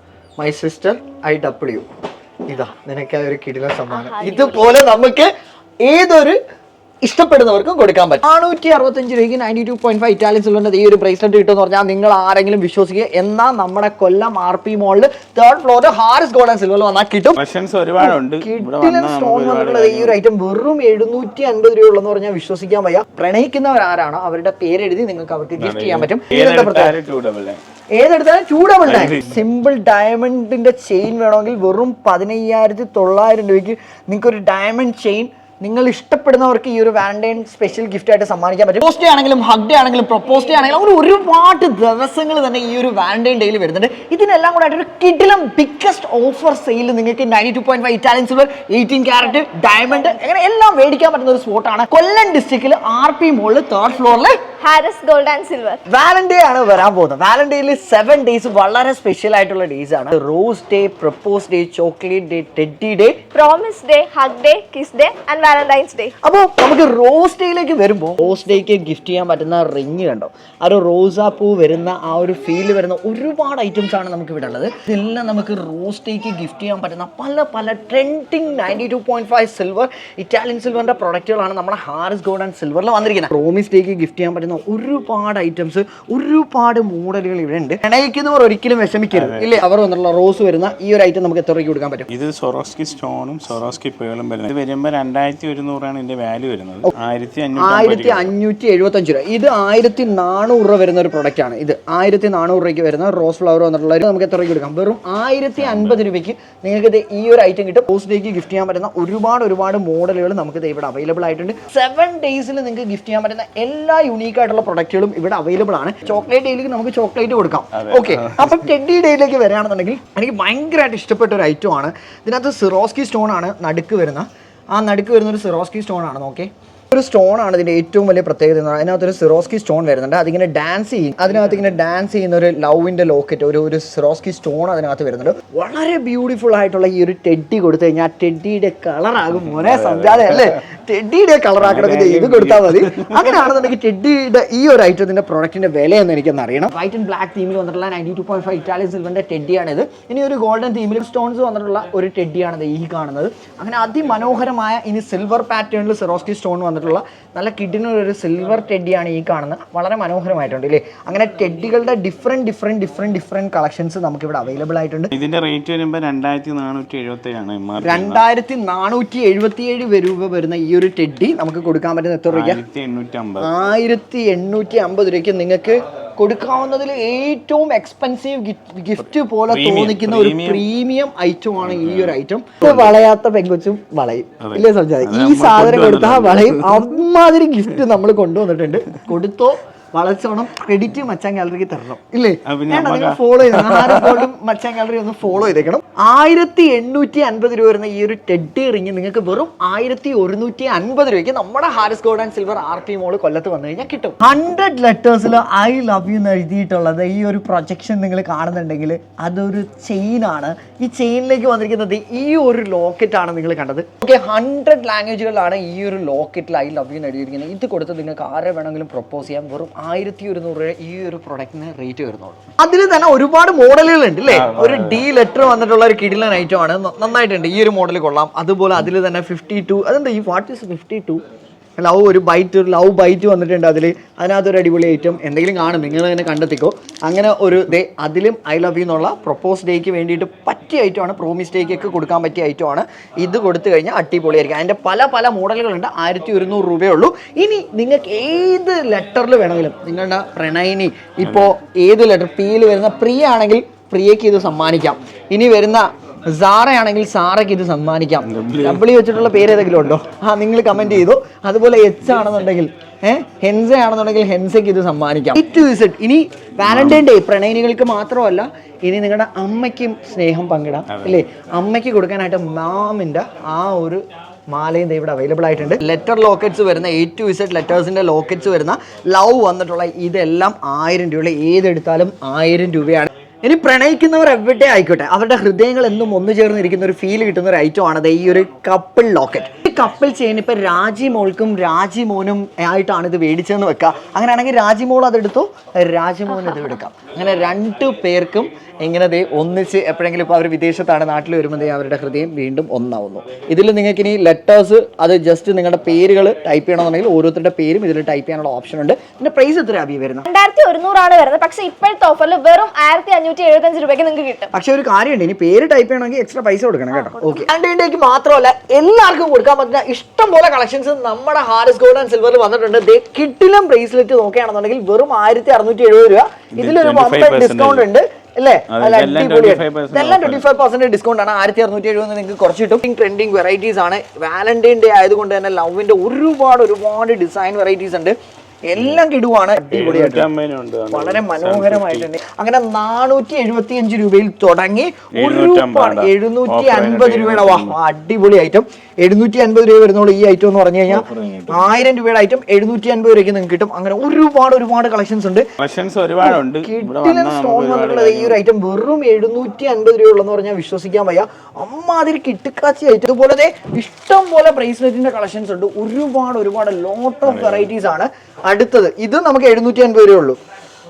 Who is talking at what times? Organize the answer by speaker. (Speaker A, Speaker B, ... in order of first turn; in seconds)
Speaker A: 0.4-1.9, 2.5-5.3, 5.8-6.4, 7.0-17.4, 18.0-26.9, 27.9-54.4, 55.9-63.3, 66.2-92.1, 97.5-165.1, 167.8-172.6, 173.4-231.2, 231.8-310.3, 314.5-340.3, 340.9-355.5, 356.2-370.4
Speaker B: 3.9-4.9, 54.6-55.8, 63.3-66.2, 296.3-296.8, 310.3-314.5, 316.9-317.5
Speaker C: 17.4-20.2, 25.6-27.6, 28.8-29.4, 89.1-89.7, 92.1-98.3, 105.6-106.0, 117.7-118.6, 139.3-140.6, 141.6-143.6, 165.1-168.2, 172.3-173.5, 179.5-180.7, 181.6-182.9, 184.4-187.0, 192.4-194.3, 224.3-225.1, 251.2-251.5, 258.2-258.9, 266.7-267.0, 270.9-271.2, 326.6-327.9, 328.7-330.5, 339.7-342.1, 345.1-347.8, 350.9-351.8, 355.6-358.4, 367.2-367.7